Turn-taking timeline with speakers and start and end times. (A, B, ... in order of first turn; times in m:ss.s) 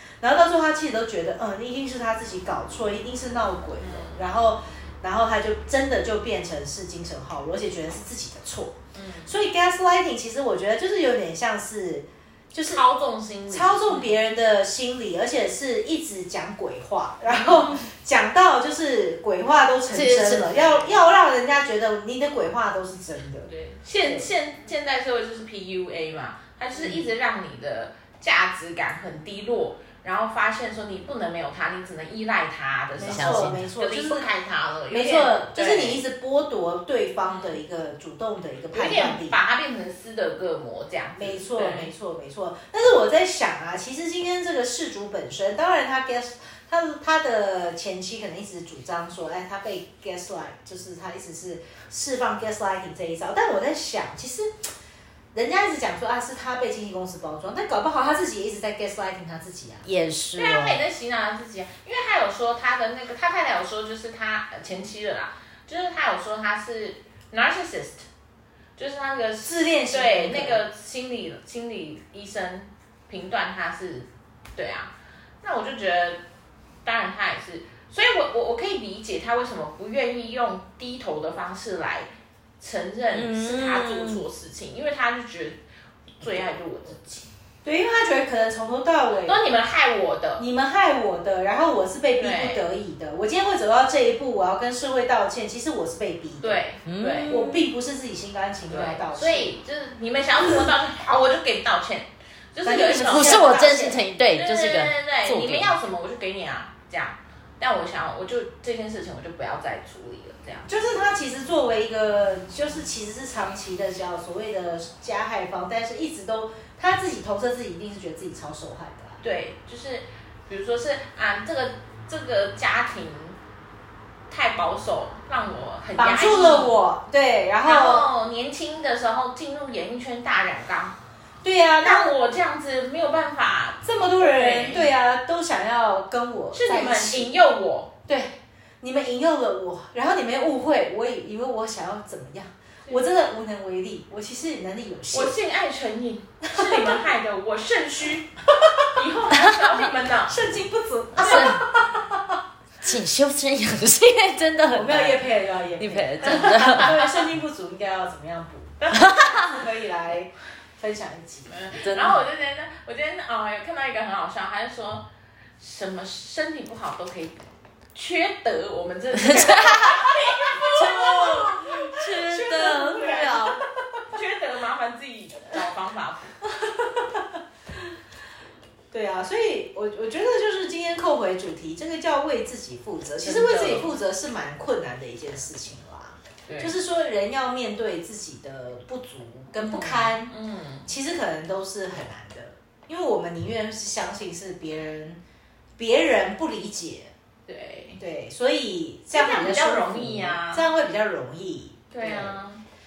0:00.2-0:12.8 A
0:03.8-0:04.3 B
0:08.9-0:09.3 B
0:12.6-0:14.2 B
0:13.5-0:23.5 A
0:17.3-0:17.8 B
0:19.9-0:20.5 C
0:20.2-0:21.0 B
0:23.4-0:36.0 B
0:24.0-0:24.3 A
0:26.7-0:27.0 A
0:32.9-0:34.3 A
0:33.0-0:33.7 C
0:34.9-0:39.4 A
0:37.3-0:37.6 B
0:38.7-0:41.9 B
0:41.2-0:54.7 A
0:55.3-0:59.9 A
0:59.8-1:00.8 C
1:00.3-1:08.0 B
1:08.8-1:16.2 B
1:09.4-1:10.6 A
1:16.8-1:22.1 B
1:22.6-1:25.6 B
1:23.1-1:24.2 C
1:26.2-1:27.3 B
1:27.6-1:29.4 A
1:29.2-1:30.4 B
1:30.4-1:36.6 A
1:32.2-1:32.6 B
1:36.4-1:37.4 B
1:36.8-1:37.7 C
1:37.3-1:39.5 A
1:38.7-1:43.6 B
1:40.4-1:40.7 A
1:42.6-1:44.0 A
1:43.1-1:45.8 C
1:44.3-1:50.7 B
1:50.6-1:59.2 A
1:59.2-2:03.4 B
2:04.3-2:06.8 B
2:06.0-2:08.1 A
2:07.6-2:11.0 B
2:11.4-2:12.2 A
2:11.8-2:14.9 B
2:13.8-2:17.3 A
2:16.5-2:17.9 B
2:18.1-2:25.4 A
2:22.8-2:23.1 B
2:25.1-2:28.3 B
2:28.9-2:30.4 B
2:30.3-2:32.4 A
2:31.2-2:31.6 C
2:32.8-2:35.2 C
2:34.7-2:41.6 A
2:35.8-2:37.0 C
2:36.8-2:37.2 B
2:38.8-2:39.4 B
2:38.9-2:39.5 C
2:41.4-2:45.1 B
2:41.8-2:42.2 C
2:45.6-2:47.4 B
2:47.9-2:51.4 B
2:49.2-2:50.0 C
2:50.7-2:53.6 C
2:50.7-2:53.6 A
2:54.1-2:56.3 B
2:56.6-2:57.4 A
2:58.9-3:10.3 A
3:03.2-3:03.9 B
3:06.5-3:06.7 B
3:09.6-3:10.9 B
3:10.8-3:15.2 A
3:15.8-3:17.1 A
3:17.4-3:18.0 B
3:18.0-3:22.4 A
3:19.1-3:20.7 B
3:21.9-3:22.6 B